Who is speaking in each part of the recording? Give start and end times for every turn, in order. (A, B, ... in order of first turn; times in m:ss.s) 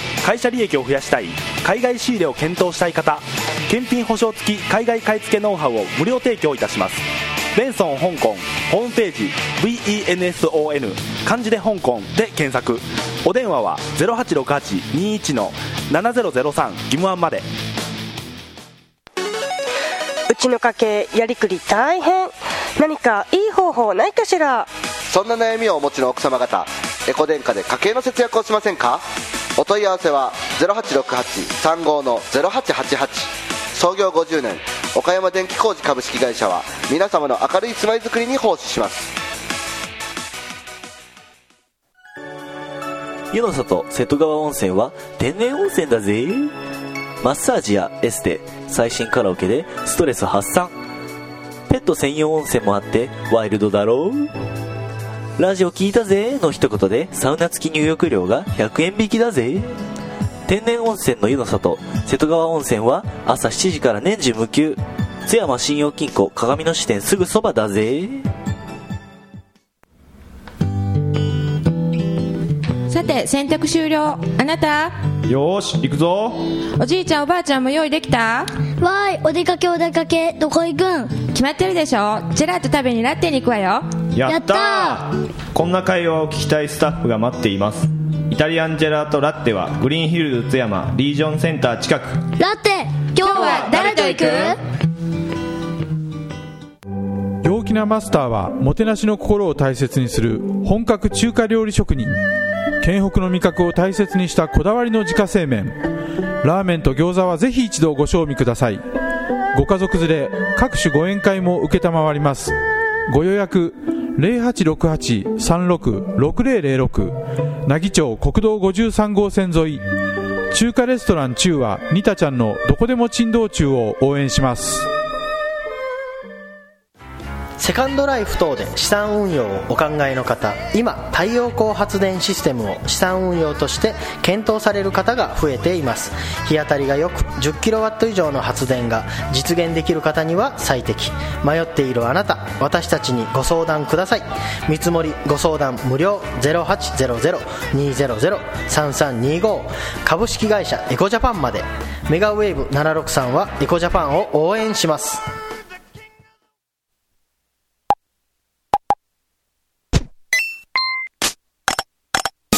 0:00.2-0:17.4 A
0:20.3-0:24.7 B
0:25.1-0:29.0 C
0:29.6-0:39.1 C
0:43.3-0:46.5 D
0:47.2-0:50.7 D
0:51.7-0:54.3 D
0:55.4-0:59.7 D
1:00.5-1:08.2 D
1:12.9-1:14.9 E
1:15.3-1:16.5 F
1:16.8-1:18.5 E
1:18.8-1:21.2 G
1:21.3-1:23.9 E
1:24.1-1:32.3 F
1:24.3-1:25.0 G
1:32.4-1:34.6 G
1:33.2-1:34.5 E
1:33.3-1:34.5 F
1:37.4-1:42.2 H
1:42.8-1:45.8 H
1:46.4-1:48.8 H
1:49.5-1:52.6 H
1:53.1-1:57.1 H
1:57.6-1:59.8 H
2:00.5-2:04.9 H
2:07.6-2:35.2 I